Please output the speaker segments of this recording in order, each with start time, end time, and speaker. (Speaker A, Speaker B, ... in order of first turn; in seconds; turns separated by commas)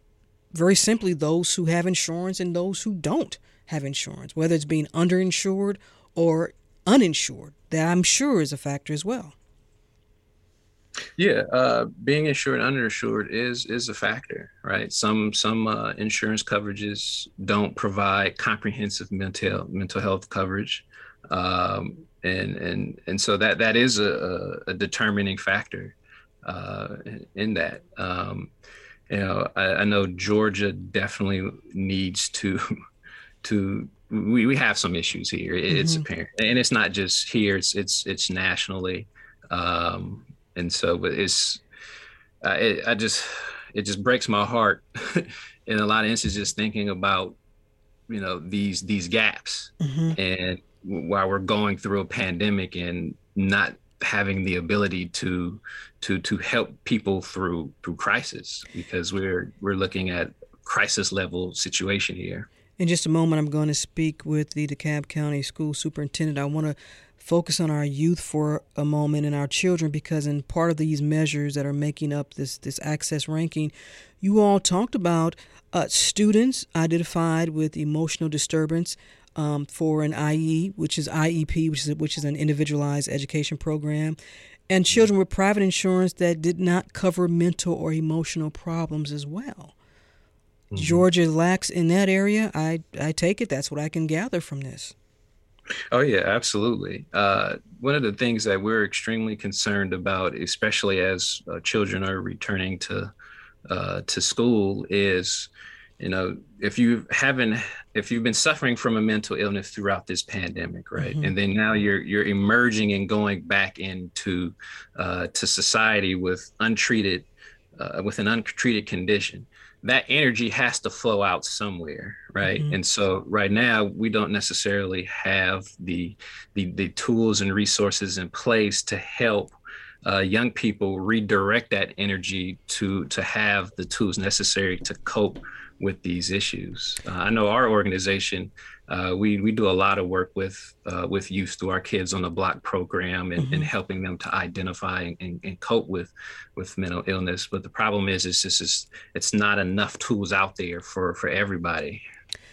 Speaker A: 0.5-9.3, Speaker B: 11.2-28.5, Speaker B: 29.1-32.6, Speaker B: 33.4-41.6, Speaker A: 35.7-36.0, Speaker B: 42.4-47.4, Speaker B: 48.1-62.5, Speaker A: 49.8-50.1, Speaker A: 62.8-84.2, Speaker A: 84.7-89.7, Speaker B: 90.7-91.0, Speaker A: 90.7-94.9, Speaker B: 95.9-103.1, Speaker B: 103.7-152.0, Speaker A: 111.0-111.3, Speaker A: 122.4-122.8, Speaker A: 143.4-143.7